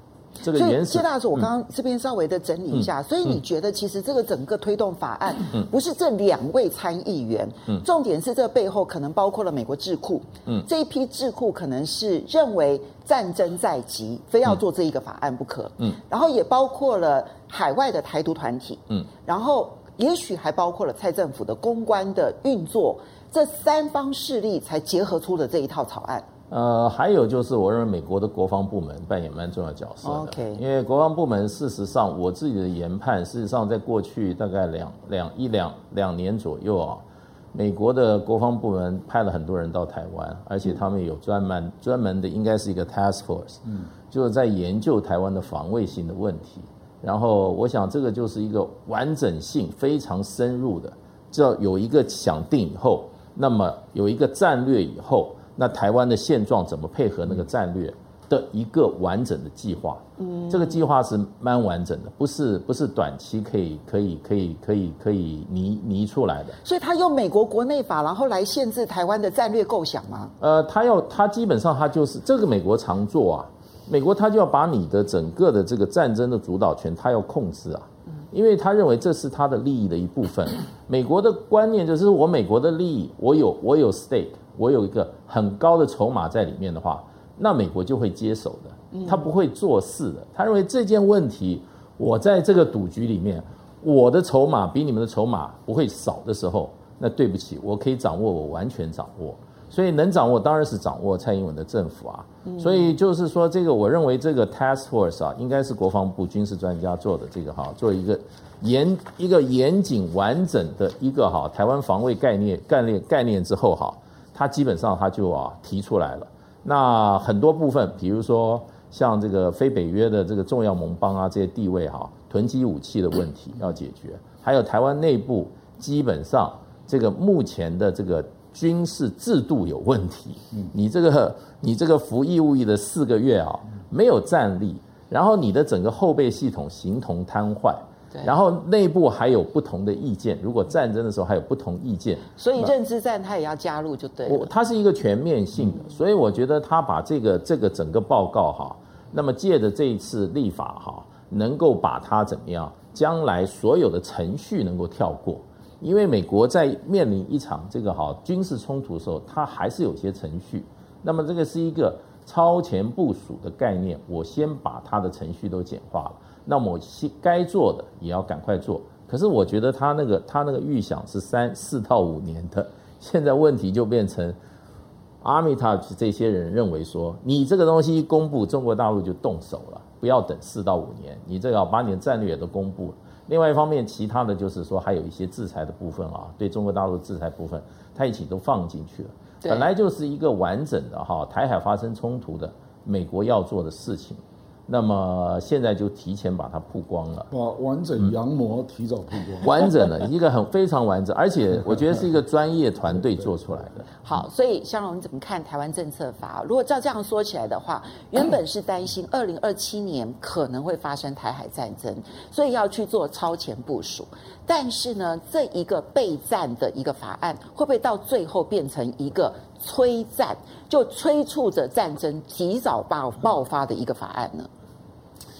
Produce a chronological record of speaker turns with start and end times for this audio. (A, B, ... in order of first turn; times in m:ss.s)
0:00.4-0:01.5 A
0:00.5-0:26.3 B
0:26.5-1:06.6 A
0:30.0-0:30.6 B
1:00.2-1:00.8 B
1:06.6-1:10.3 B
1:10.4-2:22.7 A
1:28.9-1:29.2 B
1:42.4-1:42.9 B
2:22.4-2:24.5 B
2:24.2-2:54.4 A
2:55.2-3:17.3 A
3:09.4-3:09.7 B
3:17.3-3:19.5 C
3:19.4-3:24.0 A
3:24.0-3:44.5 B